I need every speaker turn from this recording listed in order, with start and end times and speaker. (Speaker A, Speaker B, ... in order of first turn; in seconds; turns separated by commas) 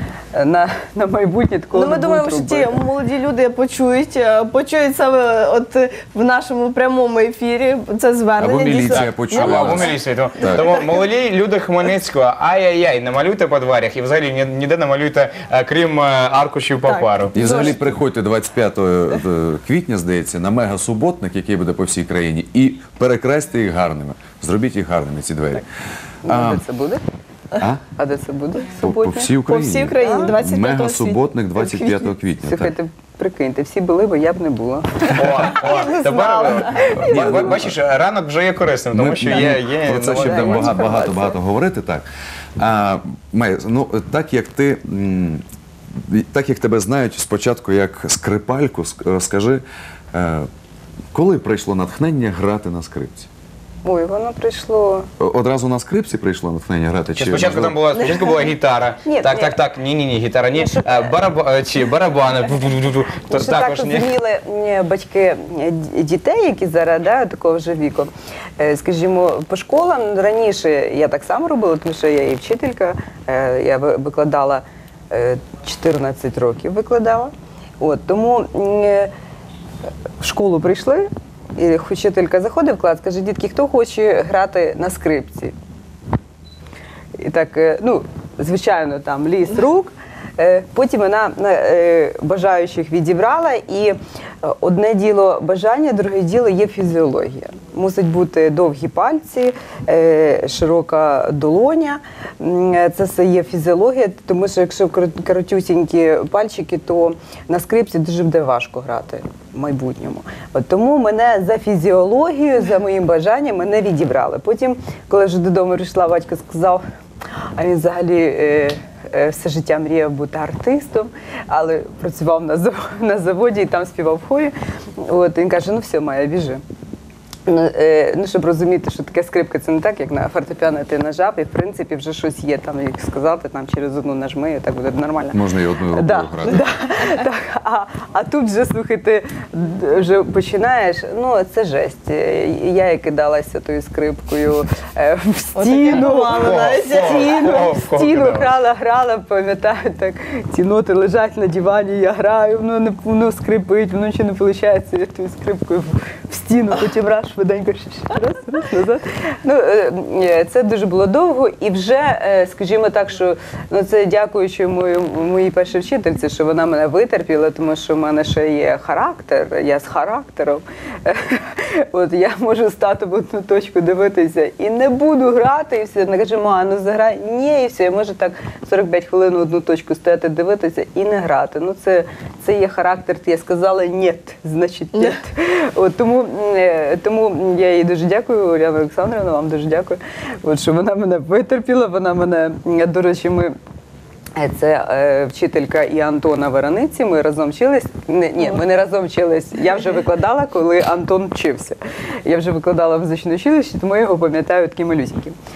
Speaker A: 0.3-2.7, Speaker B: 1.7-10.0, Speaker C: 8.4-10.8, Speaker D: 8.9-17.3, Speaker B: 16.9-17.8, Speaker C: 17.3-25.6, Speaker A: 26.2-27.0, Speaker C: 26.3-26.6, Speaker A: 28.0-29.3, Speaker C: 28.8-32.7, Speaker B: 29.5-32.1, Speaker A: 30.0-30.3, Speaker A: 32.4-35.5, Speaker D: 35.1-40.8, Speaker B: 35.6-37.4, Speaker C: 37.0-37.8, Speaker C: 38.9-42.0, Speaker A: 40.2-41.4, Speaker C: 42.6-49.6, Speaker C: 50.1-50.5, Speaker C: 51.1-53.3, Speaker A: 53.8-55.1, Speaker C: 55.2-57.8, Speaker D: 57.2-64.1, Speaker A: 59.0-59.6, Speaker A: 60.5-61.1, Speaker A: 63.3-79.1, Speaker A: 80.2-85.5, Speaker A: 87.2-116.8, Speaker A: 117.6-126.6, Speaker A: 127.5-135.4, Speaker C: 135.3-136.7, Speaker A: 135.9-193.6, Speaker B: 145.6-147.6, Speaker D: 146.3-148.5, Speaker A: 194.4-205.4